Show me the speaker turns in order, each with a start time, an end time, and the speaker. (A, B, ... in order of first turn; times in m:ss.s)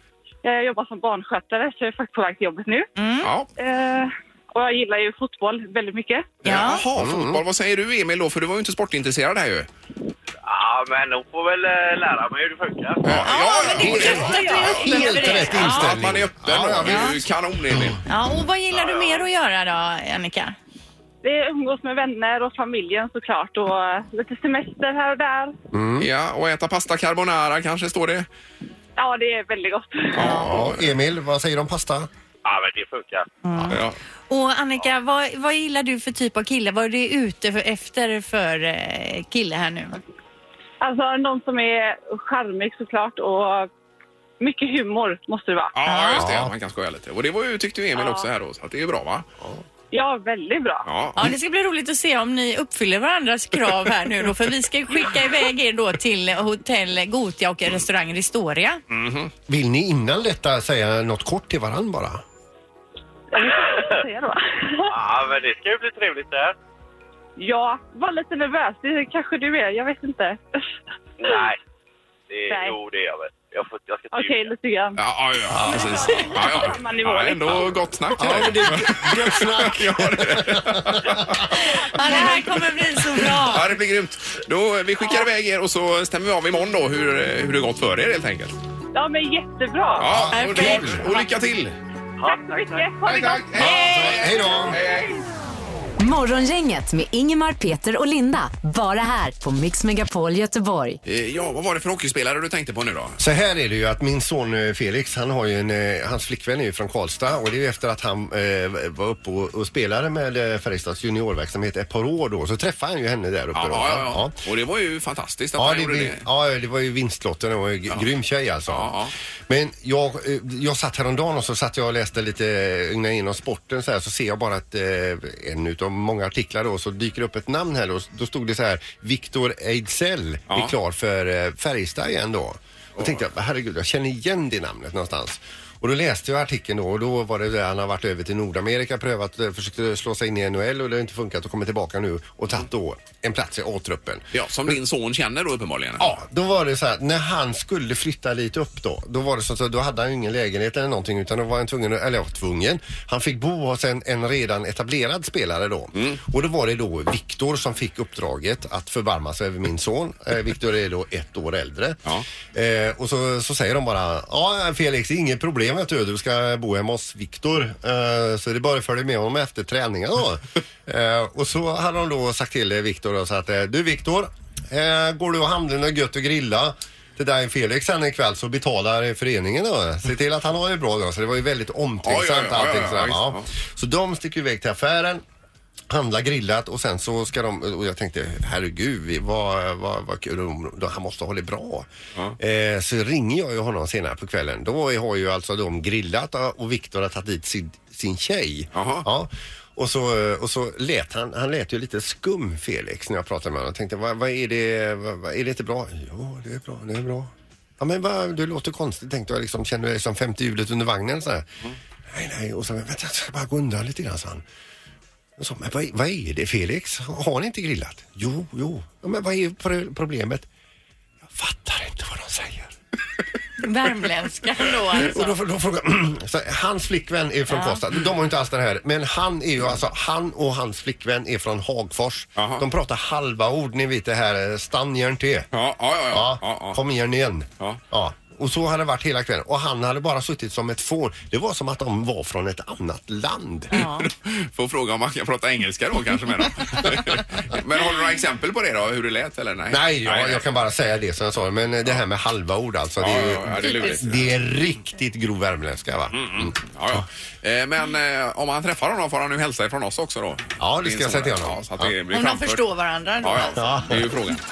0:00.4-0:02.9 A
0:03.0-0:03.3 B
0:03.2-0:03.5 C
0:03.6-0:06.3 A
0:06.4-0:06.8 B
0:06.4-0:09.7 C
0:06.9-0:07.4 D
0:10.4-0:13.3 E
0:13.0-0:18.0 C
0:13.2-0:15.9 B
0:13.6-0:15.7 A
0:13.8-0:17.2 D
0:16.8-0:17.2 B
0:18.0-0:20.5 B
0:18.7-0:19.2 E
0:21.2-0:25.5 A
0:25.7-0:26.1 D
0:26.0-0:28.3 C
0:29.0-0:30.3 A
0:30.2-0:30.9 C
0:30.2-0:32.1 D
0:30.2-0:30.5 B
0:32.4-0:33.3 E
0:33.4-0:33.8 B
0:33.7-0:34.0 C
0:34.3-0:40.0 B
0:40.8-0:43.7 A
0:44.4-0:45.7 A
0:45.7-0:49.2 C
0:45.8-0:46.2 B
0:46.2-0:46.5 D
0:48.0-0:48.3 A
0:49.9-0:50.9 A
0:50.8-0:51.3 C
0:51.2-0:58.8 B
0:58.9-0:59.3 C
0:59.5-1:02.2 D
1:03.3-1:04.9 A
1:03.5-1:03.9 E
1:04.9-1:06.5 E
1:07.4-1:10.6 A
1:11.2-1:11.6 E
1:12.3-1:14.5 E
1:12.5-1:12.8 A
1:14.1-1:18.5 A
1:15.0-1:21.5 C
1:15.5-1:16.1 D
1:18.2-1:21.4 D
1:21.6-1:23.7 B
1:21.8-1:22.5 A
1:23.3-1:28.6 C
1:28.9-1:30.1 A
1:30.0-1:31.7 C
1:30.0-1:30.9 D
1:30.3-1:31.2 B
1:32.2-1:32.9 E
1:32.2-1:34.4 A
1:33.0-1:35.2 C
1:33.6-1:34.8 D
1:36.0-1:41.0 F
1:41.0-1:43.2 C
1:43.2-1:54.3 D
1:53.5-1:56.2 C
1:55.6-1:58.9 D
1:58.7-1:59.1 C
1:59.5-2:24.3 D
2:24.3-2:26.2 C
2:26.0-2:42.0 D
2:35.9-2:36.2 C
2:42.5-3:05.2 D
3:02.0-3:03.5 C
3:05.9-3:31.5 D
3:18.7-3:19.1 C
3:32.1-3:34.4 D
3:35.4-3:40.5 D
3:41.2-3:42.7 D
3:43.6-3:45.4 B
3:45.0-3:55.5 D
3:47.5-3:47.8 B
3:52.4-3:52.6 C
3:55.5-3:56.8 C
3:56.1-4:03.8 D
4:03.7-4:04.1 B
4:03.8-4:10.5 C
4:09.7-4:17.0 D
4:13.0-4:14.3 C
4:13.6-4:14.0 B
4:16.1-4:22.6 C
4:20.6-4:21.9 D
4:22.1-4:23.9 B
4:23.2-4:24.4 C
4:23.6-4:24.1 D